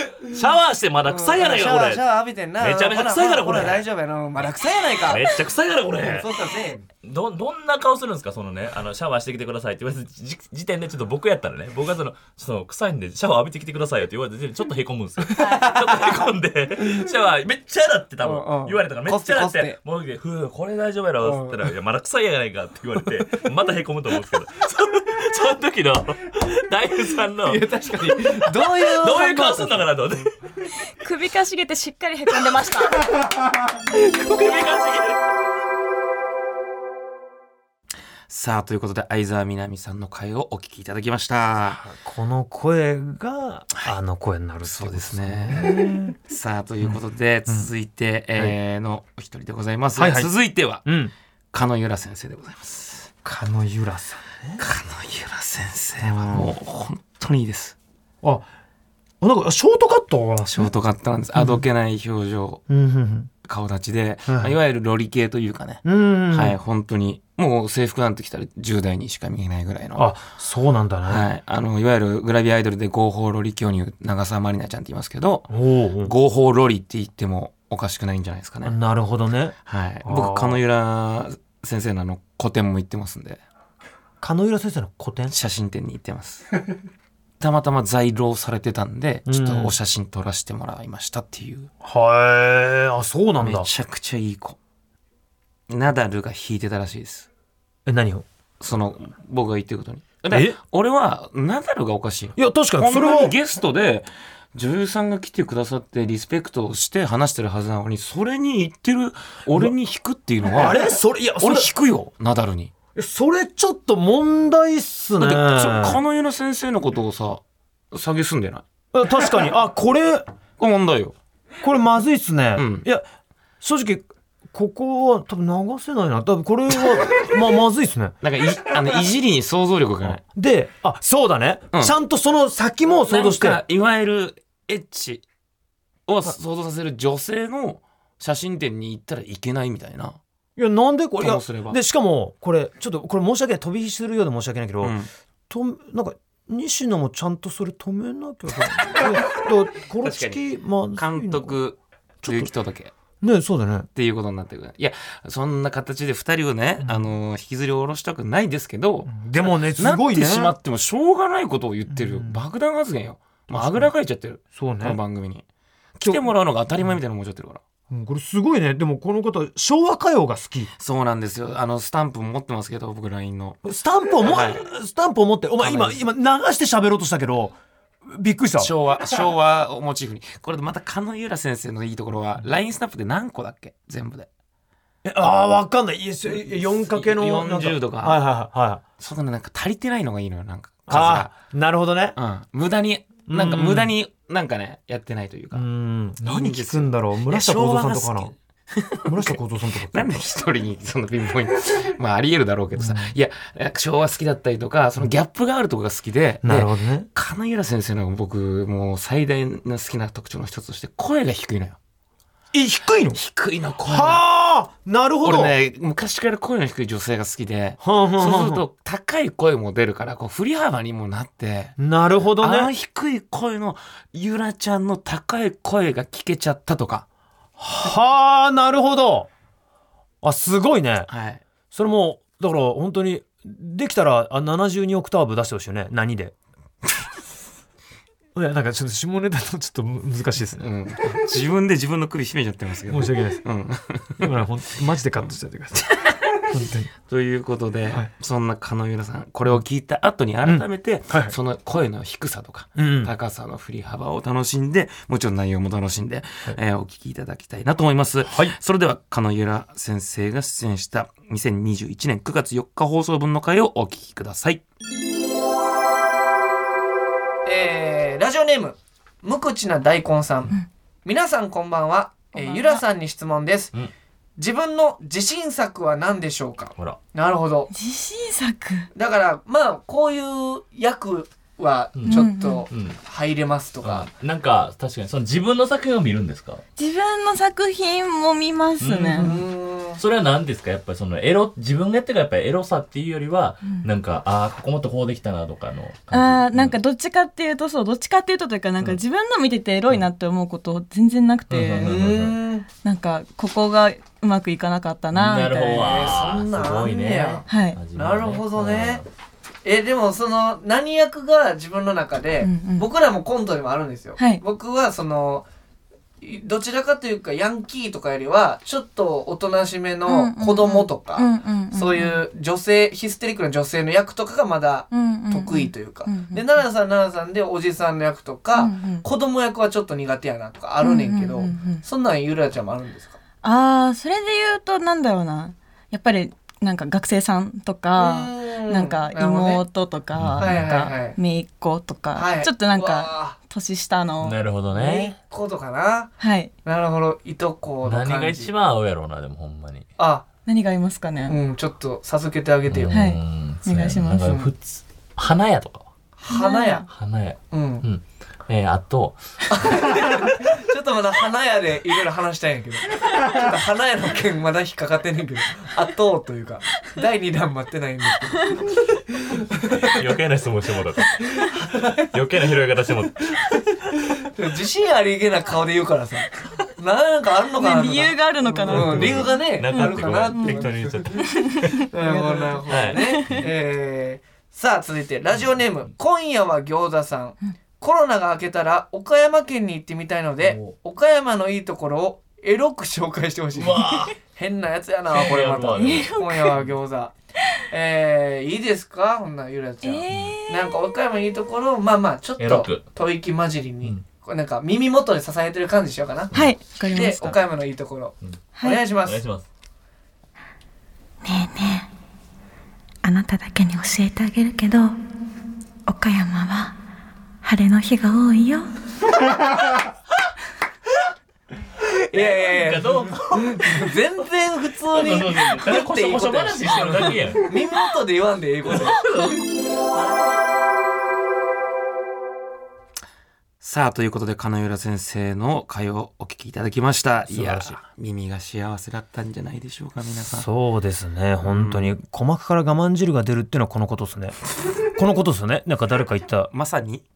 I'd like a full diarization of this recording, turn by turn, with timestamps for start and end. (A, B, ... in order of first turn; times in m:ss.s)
0:00.3-0:02.1 A
0:01.1-0:05.3 B
0:02.6-0:03.8 A
0:05.1-0:06.3 A
0:05.9-0:06.9 B
0:07.0-0:30.3 A
0:15.4-0:16.2 B
0:18.2-0:19.8 B
0:21.2-0:21.6 B
0:27.4-0:29.8 B
0:31.0-0:33.0 C
0:33.9-0:35.2 A
0:38.3-0:41.8 D
0:41.8-0:46.2 E
0:44.6-0:50.9 D
0:46.8-0:47.7 E
0:50.0-0:50.3 E
0:50.8-0:51.1 E
0:51.5-0:53.1 D
0:53.2-0:54.6 E
0:54.6-0:57.8 D
0:56.0-0:56.5 E
0:59.2-1:00.7 E
1:00.5-1:02.6 D
1:01.4-1:01.6 E
1:02.7-1:03.3 E
1:03.4-1:10.2 D
1:04.3-1:04.6 E
1:05.8-1:06.6 E
1:10.0-1:11.2 E
1:11.1-1:15.5 D
1:15.5-1:16.1 E
1:16.0-1:18.8 D
1:18.6-1:19.5 E
1:19.6-1:23.4 D
1:20.0-1:20.6 E
1:24.2-1:25.3 E
1:25.3-1:26.4 D
1:27.4-1:31.7 D
1:29.3-1:29.8 E
1:31.8-1:33.7 E
1:33.4-1:34.6 D
1:35.7-1:37.3 D
1:37.9-1:38.2 E
1:38.6-1:52.7 D
1:40.3-1:40.6 E
1:42.4-1:43.4 E
1:50.5-1:51.7 E
1:53.0-1:56.0 E
1:55.2-1:58.6 D
1:58.9-2:00.2 E
2:00.6-2:01.2 D
2:01.6-2:03.0 E
2:02.6-2:02.9 D
2:03.6-2:08.2 E
2:08.2-2:10.2 D
2:10.1-2:13.6 E
2:13.1-2:15.2 D
2:16.1-2:20.2 D
2:20.6-2:25.0 E
2:21.2-2:21.8 D
2:24.8-2:25.1 D
2:25.5-2:31.5 E
2:28.9-2:29.4 D
2:30.0-2:32.9 D
2:32.2-2:32.5 E
2:33.2-2:33.9 E
2:34.0-2:45.4 D
2:36.8-2:37.1 E
2:39.1-2:40.5 E
2:41.9-2:42.4 E
2:43.5-2:43.9 E
2:44.5-2:45.0 E
2:46.0-2:47.6 D
2:46.0-2:46.3 E
2:47.9-2:50.7 E
2:50.8-2:53.6 D
2:53.6-2:57.6 E
2:54.2-2:54.6 D
2:55.6-2:56.0 D
2:58.1-2:58.7 E
2:58.6-3:04.3 D
3:05.0-3:08.8 E
3:06.3-3:08.3 D
3:09.0-3:11.3 D
3:10.9-3:12.2 E
3:12.2-3:15.7 D
3:13.3-3:13.9 E
3:15.5-3:18.3 E
3:16.2-3:31.8 D
3:19.0-3:20.2 E
3:22.8-3:23.1 E
3:26.4-3:27.1 E
3:32.5-3:33.2 E
3:33.1-3:34.2 D
3:33.9-3:35.5 E
3:35.2-3:41.8 D
3:37.8-3:38.6 E
3:41.8-3:42.7 E
3:42.3-3:47.1 D
3:47.6-3:49.3 E
3:50.2-3:51.1 E
3:51.1-3:51.4 D
3:51.7-3:56.3 E
3:58.4-4:00.7 E
4:00.6-4:04.3 D
4:02.9-4:03.4 E
4:04.2-4:05.8 E
4:06.5-4:06.9 E
4:07.1-4:24.6 D
4:10.4-4:11.4 E
4:12.8-4:13.1 E
4:18.2-4:18.6 E
4:27.4-4:33.7 B
4:32.4-4:32.8 C
4:34.4-4:37.7 B
4:37.7-4:38.9 C
4:38.9-4:44.1 B
4:42.0-4:43.0 A
4:42.1-4:42.7 C
4:43.8-4:46.6 A
4:46.8-4:49.4 C
4:48.8-4:49.4 A
4:49.2-4:50.0 B
4:50.0-4:56.8 A
4:56.1-5:02.0 C
5:01.5-5:02.4 A
5:01.8-5:02.7 B
5:02.8-5:06.2 C
5:05.1-5:09.1 A
5:05.7-5:09.0 B
5:07.5-5:07.8 C
5:09.6-5:15.5 B
5:12.4-5:12.9 C
5:16.2-5:33.2 B
5:20.1-5:22.2 C
5:24.9-5:26.5 C
5:28.5-5:29.1 C
5:30.8-5:31.8 C
5:33.4-5:44.4 C
5:38.0-5:39.6 B
5:40.2-5:40.6 A
5:40.4-5:41.2 B
5:42.1-5:43.4 B
5:44.2-5:45.1 A
5:44.7-5:48.5 B
5:46.2-5:46.5 C
5:47.8-5:49.9 A
5:50.0-5:50.3 B
5:50.5-5:51.4 C
5:51.3-5:53.0 B
5:52.7-5:55.9 A
5:52.9-5:54.4 C
5:56.2-5:56.9 B
5:56.3-5:56.9 C
5:56.9-5:59.2 A
5:57.5-5:57.8 B
5:59.5-6:08.5 B
6:09.3-6:10.0 B
6:09.8-6:11.5 A
6:11.4-6:12.1 B
6:12.1-6:13.4 A
6:14.1-6:21.2 B
6:17.6-6:23.4 C
6:18.7-6:21.8 A
6:21.9-6:37.1 B
6:22.7-6:23.4 A
6:33.5-6:34.2 A
6:35.1-6:36.7 A
6:35.8-6:36.6 C
6:37.7-6:46.4 B
6:39.8-6:40.8 C
6:42.4-6:42.9 A
6:46.3-6:47.4 C
6:46.9-6:49.2 B
6:48.6-6:48.8 C
6:49.0-6:49.5 A
6:51.3-6:51.9 C
6:53.0-6:54.9 F
6:55.9-6:56.6 F
6:56.0-6:56.7 C
6:57.4-6:58.7 F
7:01.8-7:09.2 B
7:02.1-7:04.0 A
7:04.9-7:07.5 A
7:08.7-7:09.4 A
7:09.9-7:10.4 A
7:13.6-7:20.5 D
7:17.3-7:17.8 E
7:20.3-7:24.4 E
7:21.4-7:22.0 D
7:24.9-7:26.5 E
7:26.5-7:27.0 D